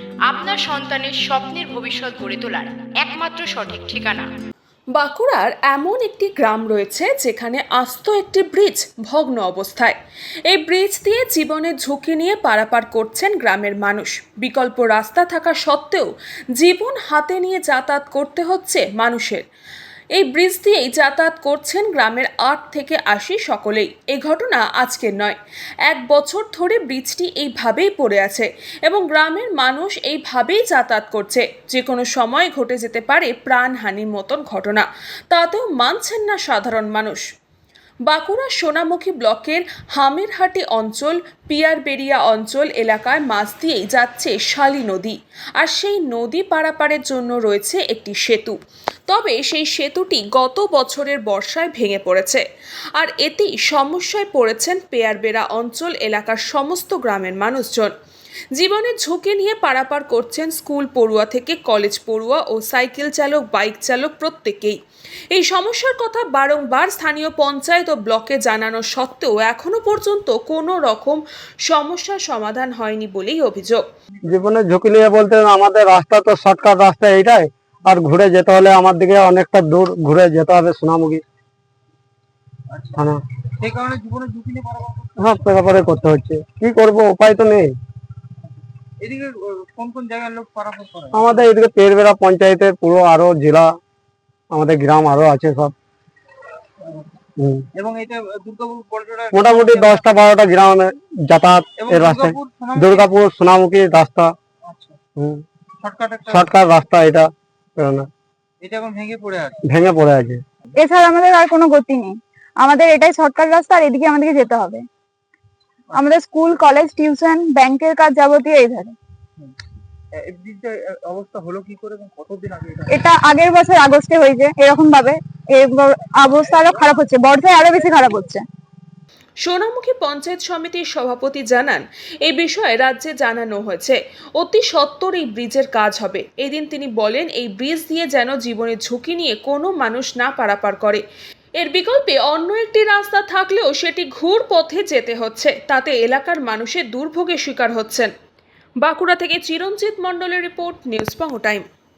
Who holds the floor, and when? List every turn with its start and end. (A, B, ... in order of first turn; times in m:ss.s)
0:00.3-0:04.2 A
0:05.0-0:09.9 B
0:10.5-0:19.4 B
0:20.1-0:25.4 B
0:25.9-0:37.2 B
0:38.1-0:48.6 B
0:49.1-0:52.4 B
0:53.0-0:57.9 B
0:58.5-1:04.8 B
1:05.3-1:13.8 B
1:14.1-1:14.4 C
1:14.2-1:21.2 D
1:22.7-1:23.0 C
1:23.6-1:25.2 C
1:25.2-1:27.7 D
1:29.0-1:31.5 C
1:31.1-1:33.7 D
1:34.5-1:35.7 D
1:37.7-1:40.0 C
1:39.3-1:44.3 D
1:41.8-1:43.1 C
1:44.6-1:45.0 C
1:45.2-1:45.4 D
1:45.8-1:46.5 C
1:46.3-1:48.1 D
1:48.6-1:49.6 C
1:49.7-1:50.4 D
1:50.8-1:54.8 E
1:55.9-1:58.9 E
2:00.2-2:03.1 C
2:02.9-2:08.4 E
2:09.4-2:21.0 B
2:21.6-2:28.1 B
2:28.8-2:31.6 B